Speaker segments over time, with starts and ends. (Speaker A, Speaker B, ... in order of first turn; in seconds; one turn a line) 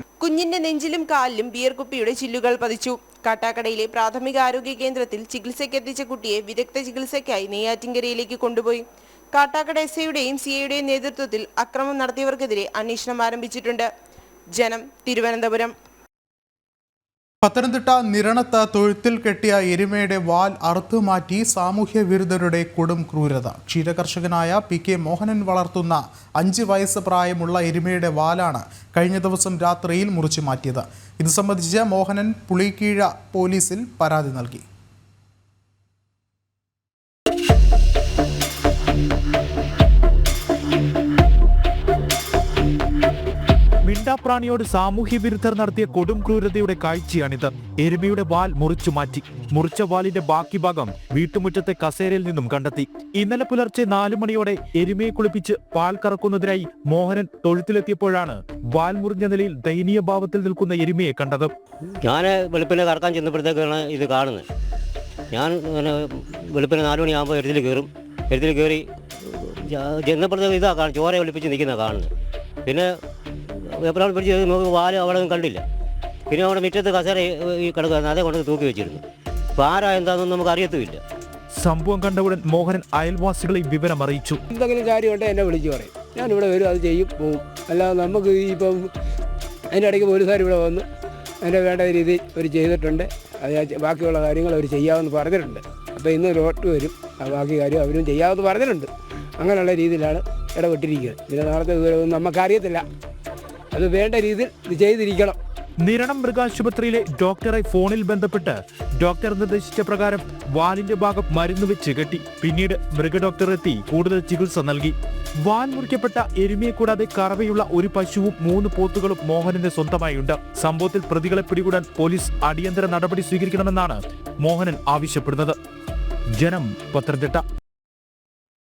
Speaker A: 0.2-13.9
Speaker A: 14.5-15.7
Speaker B: 17.4-34.7
Speaker C: 43.9-61.5
Speaker D: 62.0-64.5
Speaker D: 65.3-72.1
Speaker D: 72.7-73.0
Speaker D: 73.5-75.6
Speaker D: 76.3-79.0
Speaker D: 79.6-81.0
Speaker C: 81.6-84.4
Speaker E: 84.5-88.9
Speaker E: 89.7-90.9
Speaker E: 91.4-102.8
Speaker E: 103.7-105.4
Speaker C: 105.8-125.6
Speaker C: 126.4-127.4